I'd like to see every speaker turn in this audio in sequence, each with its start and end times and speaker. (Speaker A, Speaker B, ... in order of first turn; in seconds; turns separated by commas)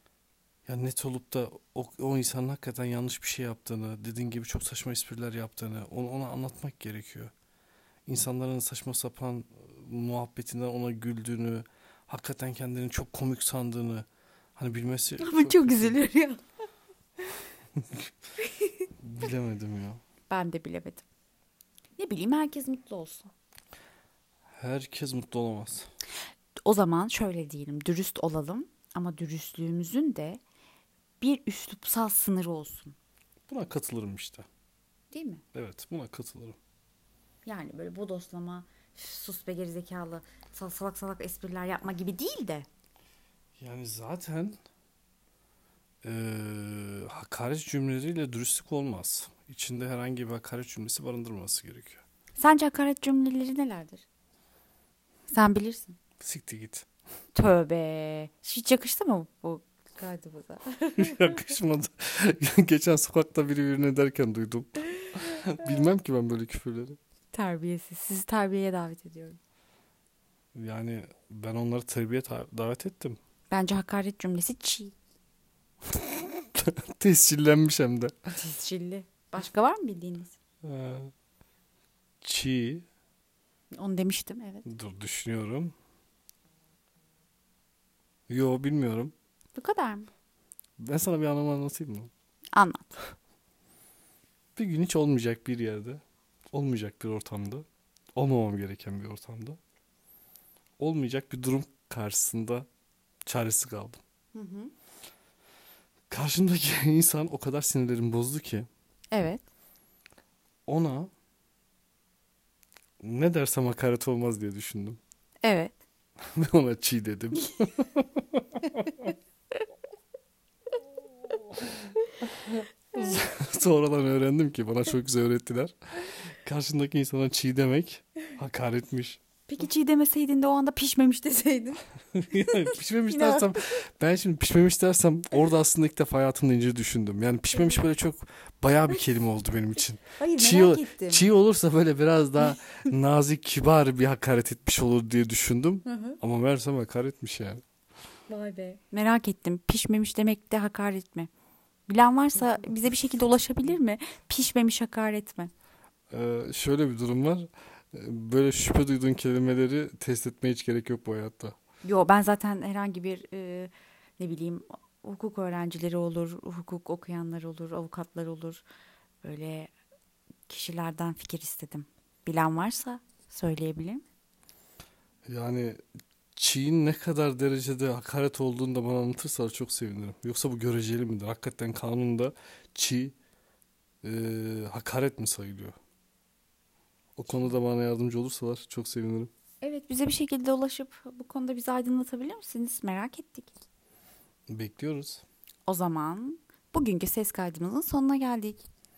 Speaker A: 0.7-7.3, Speaker A: 8.1-16.0, Speaker B: 15.2-16.4, Speaker A: 17.8-18.1, Speaker B: 18.4-18.9, Speaker A: 19.0-20.0, Speaker B: 20.3-21.1, Speaker B: 22.0-23.3, Speaker A: 24.6-25.9, Speaker B: 26.6-30.4, Speaker B: 31.2-33.0, Speaker A: 33.5-34.5, Speaker B: 35.1-35.4, Speaker A: 35.5-36.6, Speaker B: 37.5-42.7, Speaker A: 43.6-44.6, Speaker A: 46.0-52.0, Speaker B: 52.4-54.1, Speaker B: 55.3-56.0, Speaker A: 56.2-56.9, Speaker B: 57.4-61.4, Speaker A: 61.0-67.0, Speaker B: 67.3-69.4, Speaker A: 70.5-73.2, Speaker B: 73.5-75.0, Speaker A: 75.9-78.3, Speaker B: 78.3-80.3, Speaker A: 80.6-81.1, Speaker A: 82.2-82.9, Speaker B: 83.7-84.7, Speaker A: 84.7-85.7, Speaker A: 88.3-89.1, Speaker B: 89.5-90.1, Speaker A: 90.8-92.1, Speaker B: 92.5-93.0, Speaker A: 94.6-99.6, Speaker A: 100.8-102.7, Speaker A: 103.3-104.0, Speaker B: 104.3-104.7, Speaker A: 106.1-108.7, Speaker B: 109.1-109.4, Speaker A: 110.7-111.1, Speaker A: 113.0-115.0, Speaker B: 115.4-115.8, Speaker A: 116.2-119.1, Speaker A: 122.3-129.2, Speaker B: 129.5-133.7, Speaker A: 132.1-147.6, Speaker B: 137.6-137.8, Speaker B: 140.2-141.3, Speaker B: 145.9-146.2, Speaker B: 148.3-151.3, Speaker B: 151.9-155.5, Speaker A: 156.1-161.6, Speaker B: 161.8-168.6, Speaker B: 169.2-169.7, Speaker B: 170.5-174.1, Speaker A: 175.3-183.2, Speaker A: 184.0-185.8, Speaker A: 187.2-189.3, Speaker B: 189.6-193.5, Speaker A: 194.5-195.2, Speaker B: 195.7-198.7